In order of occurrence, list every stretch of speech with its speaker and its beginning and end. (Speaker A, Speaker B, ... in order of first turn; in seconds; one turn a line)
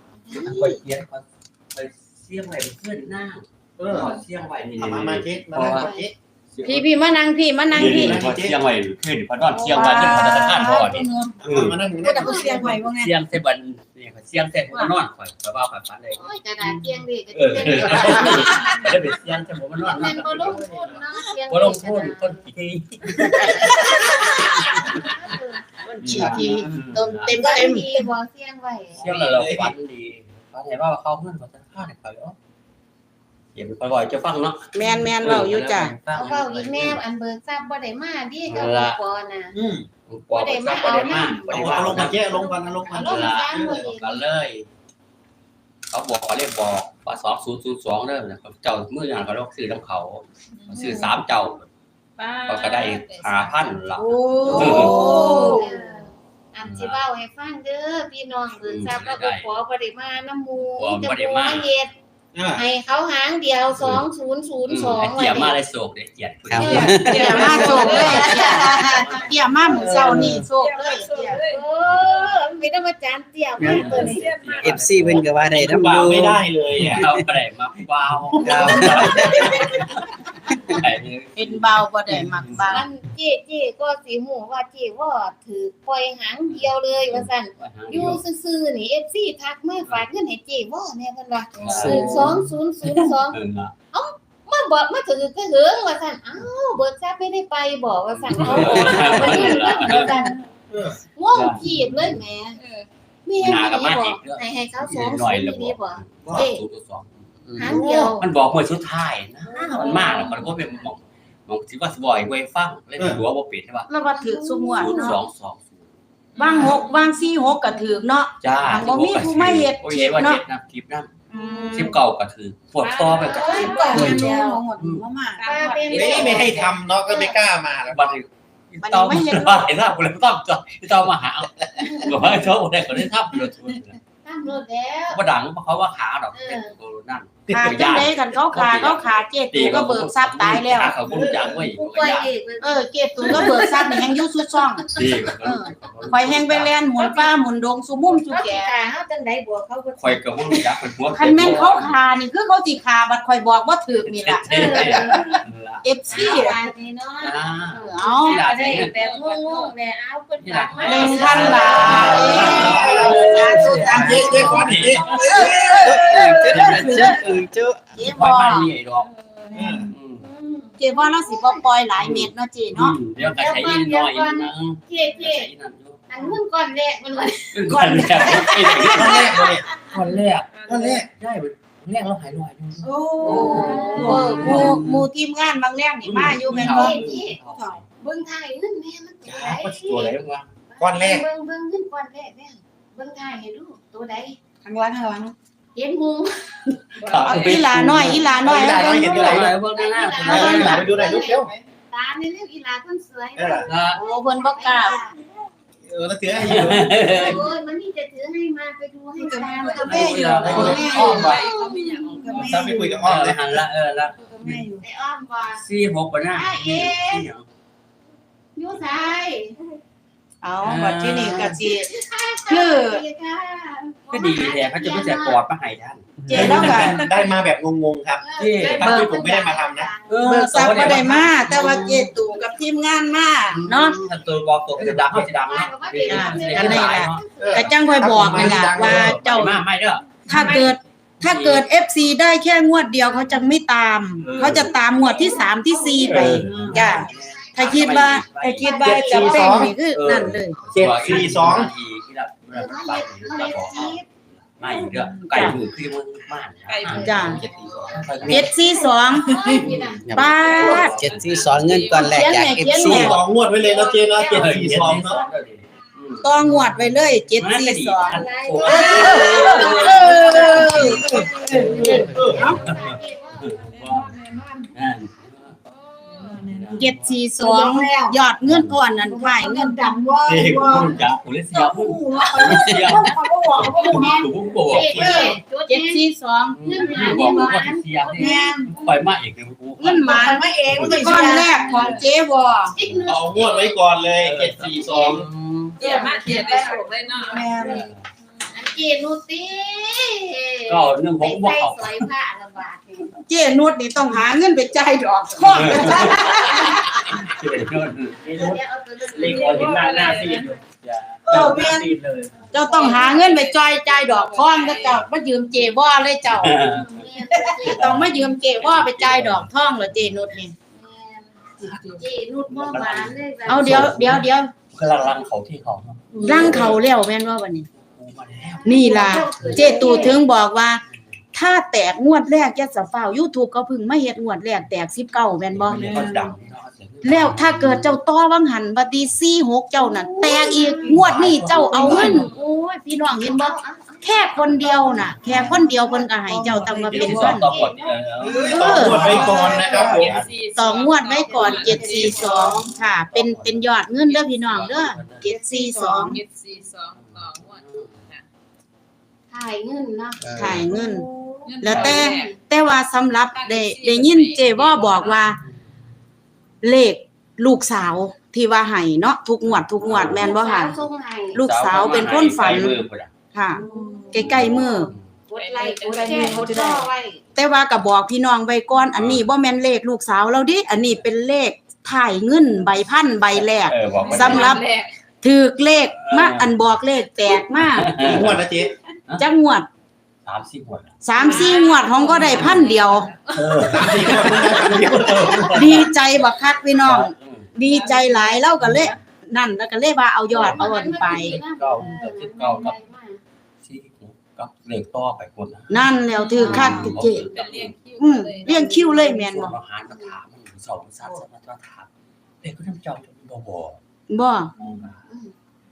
Speaker A: 0.2-0.8
Speaker B: 0.3-5.9
Speaker C: 3.8-4.2
Speaker C: 4.7-6.1
Speaker A: 5.6-6.0
Speaker B: 6.5-6.9
Speaker D: 6.6-8.3
Speaker C: 7.7-8.6
Speaker B: 7.7-11.8
Speaker D: 9.5-11.4
Speaker C: 11.4-12.7
Speaker D: 12.0-13.1
Speaker A: 12.2-12.7
Speaker B: 12.9-16.2
Speaker A: 16.1-18.8
Speaker B: 17.3-20.9
Speaker A: 19.9-22.4
Speaker B: 21.5-25.0
Speaker D: 23.2-24.9
Speaker A: 23.3-25.6
Speaker D: 25.8-28.0
Speaker B: 26.0-27.4
Speaker A: 27.3-29.0
Speaker B: 29.0-32.4
Speaker C: 29.0-29.7
Speaker B: 33.5-37.0
Speaker D: 34.7-35.9
Speaker A: 36.1-39.5
Speaker B: 38.5-39.0
Speaker C: 39.5-39.9
Speaker B: 40.1-42.4
Speaker A: 40.3-44.2
Speaker C: 41.5-43.9
Speaker B: 43.0-44.7
Speaker B: 45.9-51.7
Speaker E: 50.7-51.0
Speaker A: 50.8-51.1
Speaker E: 52.2-53.7
Speaker B: 52.5-55.0
Speaker D: 54.0-55.7
Speaker A: 54.4-61.9
Speaker B: 56.6-57.0
Speaker B: 58.6-59.5
Speaker B: 60.7-61.7
Speaker C: 62.3-62.6
Speaker A: 62.5-65.6
Speaker B: 64.7-69.3
Speaker F: 66.5-67.7
Speaker A: 66.6-69.1
Speaker D: 66.9-71.4
Speaker E: 67.0-69.0
Speaker C: 69.8-70.4
Speaker F: 70.1-70.4
Speaker E: 70.5-71.6
Speaker A: 71.4-74.3
Speaker B: 71.8-72.2
Speaker F: 73.6-77.2
Speaker B: 73.6-75.7
Speaker E: 73.8-74.9
Speaker C: 75.6-77.1
Speaker B: 76.8-80.1
Speaker C: 78.4-79.0
Speaker F: 78.6-79.6
Speaker B: 80.7-81.6
Speaker D: 81.3-82.8
Speaker B: 82.3-82.7
Speaker A: 82.6-93.4
Speaker B: 86.5-88.2
Speaker B: 91.6-93.7
Speaker F: 91.6-92.4
Speaker A: 93.9-100.4
Speaker B: 98.1-100.1
Speaker A: 101.2-102.6
Speaker B: 101.3-102.2
Speaker E: 102.6-102.9
Speaker A: 103.2-106.6
Speaker B: 103.4-113.9
Speaker A: 107.6-108.3
Speaker D: 107.7-108.1
Speaker A: 109.5-110.5
Speaker E: 110.2-110.5
Speaker D: 113.9-115.2
Speaker A: 114.0-115.2
Speaker B: 114.7-115.8
Speaker E: 116.3-117.1
Speaker D: 116.3-120.4
Speaker B: 118.4-121.1
Speaker D: 121.3-122.0
Speaker B: 121.7-125.0
Speaker A: 123.0-124.6
Speaker E: 123.1-124.1
Speaker D: 123.1-126.5
Speaker E: 125.4-126.2
Speaker A: 125.4-127.4
Speaker C: 125.9-128.2
Speaker B: 125.9-126.4
Speaker B: 127.8-134.0
Speaker D: 128.8-129.7
Speaker A: 131.8-132.4
Speaker A: 134.2-135.2
Speaker B: 135.1-142.3
Speaker A: 136.3-136.7
Speaker D: 137.5-141.0
Speaker C: 141.0-141.5
Speaker A: 141.4-144.0
Speaker D: 142.6-144.9
Speaker B: 143.2-143.6
Speaker B: 144.9-146.7
Speaker D: 145.4-148.7
Speaker A: 147.0-147.3
Speaker A: 148.1-150.6
Speaker B: 149.9-151.9
Speaker D: 151.1-155.2
Speaker B: 154.1-156.5
Speaker A: 154.5-155.4
Speaker D: 155.8-156.6
Speaker A: 156.1-164.5
Speaker B: 157.2-159.0
Speaker D: 157.8-158.4
Speaker E: 158.9-159.7
Speaker B: 160.4-167.4
Speaker D: 160.8-167.0
Speaker E: 161.1-162.0
Speaker C: 161.8-165.8
Speaker F: 163.2-164.3
Speaker F: 165.8-167.8
Speaker D: 167.9-168.7
Speaker B: 168.0-169.1
Speaker E: 169.2-169.7
Speaker C: 169.5-169.9
Speaker B: 169.9-170.2
Speaker A: 170.2-171.6
Speaker D: 170.8-173.0
Speaker B: 172.0-176.0
Speaker A: 173.2-175.5
Speaker A: 176.1-177.6
Speaker B: 177.5-180.5
Speaker D: 177.7-179.6
Speaker A: 178.8-179.5
Speaker C: 178.9-179.7
Speaker E: 180.5-181.0
Speaker C: 180.6-181.1
Speaker B: 181.2-185.1
Speaker D: 182.9-187.7
Speaker A: 183.2-184.7
Speaker B: 186.0-187.8
Speaker A: 186.5-187.4
Speaker A: 188.0-190.1
Speaker B: 189.2-190.5
Speaker A: 190.7-194.4
Speaker C: 190.8-191.2
Speaker D: 194.7-195.3
Speaker A: 195.7-196.4
Speaker B: 197.0-201.0
Speaker D: 197.2-199.5
Speaker C: 197.8-199.5
Speaker A: 199.1-205.1
Speaker C: 200.2-201.6
Speaker C: 203.3-203.7
Speaker B: 203.7-204.0
Speaker D: 203.9-205.1
Speaker C: 205.8-207.2
Speaker B: 206.4-207.4
Speaker A: 206.8-212.3
Speaker D: 209.4-213.0
Speaker B: 209.8-211.4
Speaker G: 209.8-210.4
Speaker C: 210.4-211.4
Speaker F: 210.7-211.1
Speaker E: 211.2-212.6
Speaker C: 212.3-213.6
Speaker B: 212.4-214.7
Speaker D: 214.4-214.8
Speaker A: 214.8-215.6
Speaker B: 215.6-217.4
Speaker A: 216.3-217.3
Speaker A: 218.6-219.6
Speaker D: 220.4-221.9
Speaker B: 220.6-221.6
Speaker A: 221.3-225.4
Speaker D: 222.5-223.0
Speaker B: 224.1-227.0
Speaker F: 226.2-226.6
Speaker D: 226.3-227.0
Speaker C: 226.3-229.9
Speaker E: 226.9-227.3
Speaker A: 228.2-230.2
Speaker B: 228.4-229.3
Speaker B: 230.1-232.1
Speaker D: 230.2-234.0
Speaker B: 233.5-237.2
Speaker A: 235.3-238.7
Speaker D: 236.0-239.6
Speaker C: 237.4-239.2
Speaker B: 238.2-241.7
Speaker D: 240.2-250.6
Speaker A: 243.1-243.5
Speaker B: 244.2-245.3
Speaker A: 244.5-246.8
Speaker B: 246.0-258.5
Speaker C: 246.4-246.8
Speaker A: 248.6-249.7
Speaker C: 248.7-249.7
Speaker C: 250.7-251.7
Speaker A: 251.0-251.3
Speaker A: 252.5-254.0
Speaker D: 254.9-255.6
Speaker E: 256.7-257.1
Speaker D: 256.9-257.4
Speaker A: 257.0-260.9
Speaker D: 258.2-259.6
Speaker B: 259.4-261.6
Speaker F: 260.1-263.2
Speaker D: 260.1-261.0
Speaker E: 260.4-262.9
Speaker D: 262.0-263.2
Speaker C: 262.9-265.2
Speaker A: 263.5-264.7
Speaker B: 264.3-274.2
Speaker D: 266.2-268.2
Speaker A: 268.0-273.7
Speaker D: 268.8-271.2
Speaker C: 269.4-269.6
Speaker C: 271.0-272.5
Speaker E: 273.8-274.5
Speaker B: 274.7-275.6
Speaker E: 275.9-276.4
Speaker B: 276.2-277.1
Speaker D: 276.7-279.8
Speaker G: 277.4-278.1
Speaker B: 278.4-278.8
Speaker G: 279.1-280.9
Speaker B: 280.2-285.2
Speaker G: 281.6-284.2
Speaker D: 282.4-284.1
Speaker A: 284.6-286.0
Speaker C: 284.8-285.3
Speaker D: 284.9-287.4
Speaker B: 286.5-292.0
Speaker A: 286.6-288.5
Speaker D: 288.2-288.7
Speaker G: 288.2-288.7
Speaker D: 289.8-292.8
Speaker G: 290.1-290.5
Speaker G: 291.0-291.4
Speaker A: 292.7-293.8
Speaker C: 293.0-295.3
Speaker B: 294.2-295.8
Speaker A: 294.9-295.1
Speaker E: 295.8-297.9
Speaker A: 295.8-296.8
Speaker D: 297.2-297.9
Speaker B: 297.6-298.0
Speaker A: 298.5-303.2
Speaker B: 300.7-302.1
Speaker D: 303.2-306.9
Speaker B: 305.5-308.6
Speaker A: 308.2-309.7
Speaker B: 309.1-312.3
Speaker E: 309.2-310.6
Speaker D: 311.3-311.9
Speaker G: 311.4-311.8
Speaker D: 312.5-316.6
Speaker E: 312.6-315.1
Speaker B: 316.3-317.0
Speaker A: 316.6-318.1
Speaker D: 317.5-320.5
Speaker B: 317.6-320.4
Speaker A: 320.7-324.1
Speaker B: 321.6-326.8
Speaker D: 323.4-324.5
Speaker A: 326.2-326.7
Speaker D: 326.2-327.7
Speaker B: 327.8-329.8
Speaker A: 328.5-330.2
Speaker D: 328.6-330.8
Speaker D: 331.3-336.1
Speaker B: 335.5-338.0
Speaker D: 337.0-347.5
Speaker A: 340.0-340.8
Speaker B: 340.8-342.3
Speaker A: 341.8-342.1
Speaker E: 342.0-342.3
Speaker A: 343.2-344.1
Speaker B: 345.1-345.6
Speaker G: 346.3-347.4
Speaker B: 346.5-350.3
Speaker A: 347.3-347.8
Speaker C: 348.2-350.2
Speaker D: 348.4-349.7
Speaker E: 348.6-352.6
Speaker A: 349.1-349.7
Speaker D: 350.5-356.2
Speaker B: 351.5-355.3
Speaker G: 355.2-356.1
Speaker E: 355.9-358.2
Speaker B: 356.9-358.0
Speaker A: 359.3-360.6
Speaker B: 360.2-360.7
Speaker D: 360.3-361.0
Speaker E: 361.4-362.3
Speaker D: 361.6-365.4
Speaker B: 361.6-362.1
Speaker A: 362.0-362.3
Speaker E: 363.3-365.2
Speaker D: 366.6-370.8
Speaker B: 369.4-370.9
Speaker A: 370.0-371.4
Speaker D: 371.3-372.8
Speaker B: 371.4-373.1
Speaker D: 373.3-374.9
Speaker A: 373.6-377.2
Speaker B: 374.1-375.0
Speaker E: 375.3-376.5
Speaker D: 376.1-376.8
Speaker D: 377.4-384.6
Speaker B: 378.9-379.3
Speaker B: 383.4-384.6
Speaker E: 383.9-384.9
Speaker D: 385.2-388.0
Speaker B: 386.0-386.6
Speaker B: 387.6-388.4
Speaker C: 387.8-388.7
Speaker D: 389.2-389.7
Speaker B: 390.2-390.9
Speaker D: 391.0-393.1
Speaker E: 391.1-393.6
Speaker B: 392.0-392.8
Speaker B: 393.3-395.9
Speaker C: 393.6-395.4
Speaker D: 395.5-401.4
Speaker B: 396.8-397.5
Speaker B: 398.6-399.0
Speaker B: 400.3-402.8
Speaker A: 400.4-403.2
Speaker B: 403.6-407.8
Speaker D: 405.7-407.3
Speaker E: 406.2-409.0
Speaker A: 406.4-406.9
Speaker D: 408.0-409.6
Speaker B: 409.0-411.9
Speaker A: 409.9-410.1
Speaker B: 412.4-413.8
Speaker D: 414.1-414.5
Speaker A: 414.6-415.3
Speaker B: 414.6-415.0